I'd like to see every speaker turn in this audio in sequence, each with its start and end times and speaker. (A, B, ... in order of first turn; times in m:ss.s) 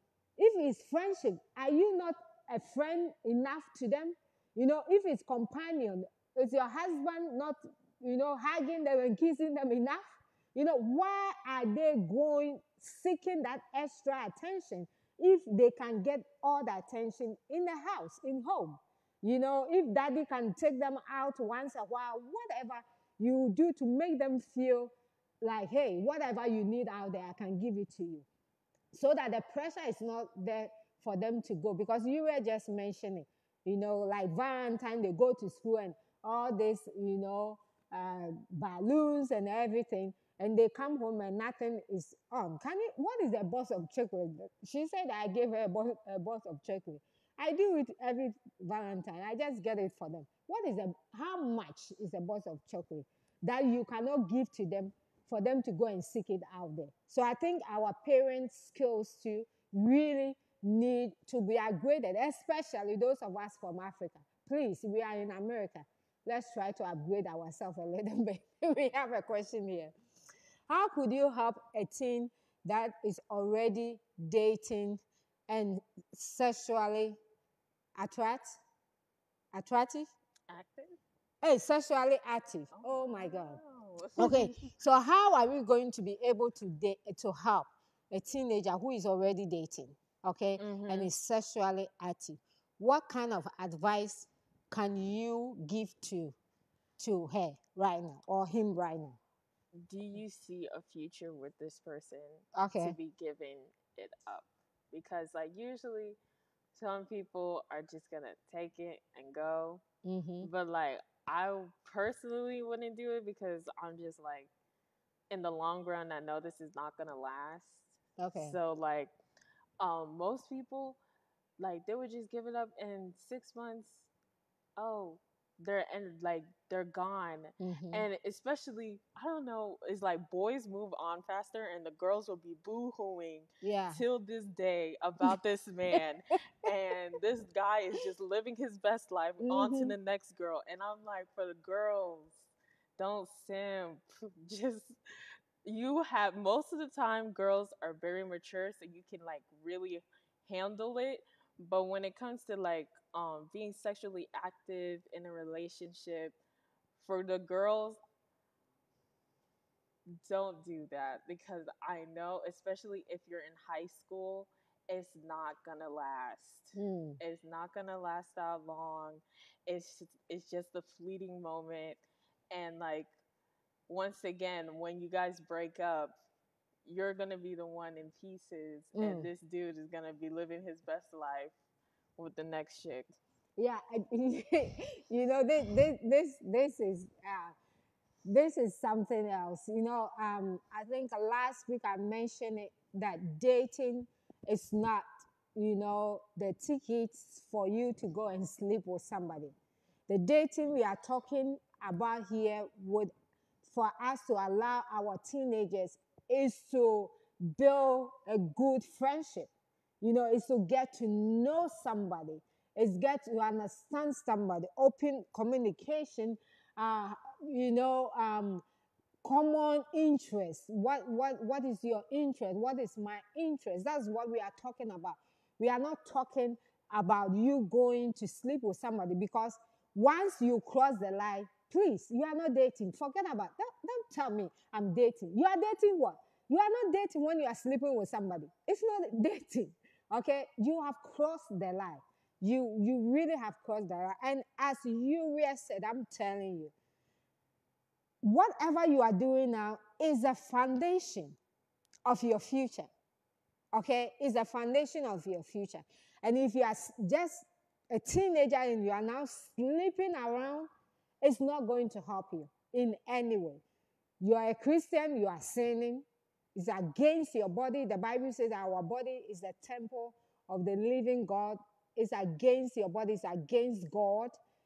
0:00.4-0:28.3 A
0:28.9-1:09.9 A
1:10.7-1:17.2 A
1:18.0-1:18.6 A
1:19.5-1:20.1 A
1:20.5-1:21.0 B
1:21.4-1:23.6 A
1:22.7-1:24.7 B
1:24.2-1:36.4 A
1:30.6-1:31.1 B
1:37.0-1:39.2 A
1:39.8-1:46.2 B
1:42.5-1:43.0 A
1:46.7-1:49.8 B
1:50.0-1:50.5 A
1:50.4-1:54.5 B
1:55.3-1:59.1 B
1:58.2-1:58.6 A
1:59.8-2:01.0 B
2:01.6-2:04.1 B
2:04.8-2:25.0 B
2:07.6-2:08.1 A
2:13.6-2:14.0 A
2:19.4-2:20.0 A
2:25.6-2:36.4 B
2:37.0-2:38.0 B
2:40.2-2:53.1 B
2:46.8-2:47.2 A
2:53.9-2:56.2 B
2:56.8-3:01.5 B
2:59.0-2:59.3 A
3:02.2-3:03.1 B
3:03.6-3:07.6 A
3:08.3-3:19.5 A
3:20.1-3:23.1 A
3:23.6-3:29.5 A
3:30.0-3:38.6 A
3:39.2-4:06.7 A
4:08.2-4:11.4 A
4:12.0-4:12.9 A
4:13.7-4:20.7 A
4:21.2-4:23.6 A
4:24.2-4:34.4 A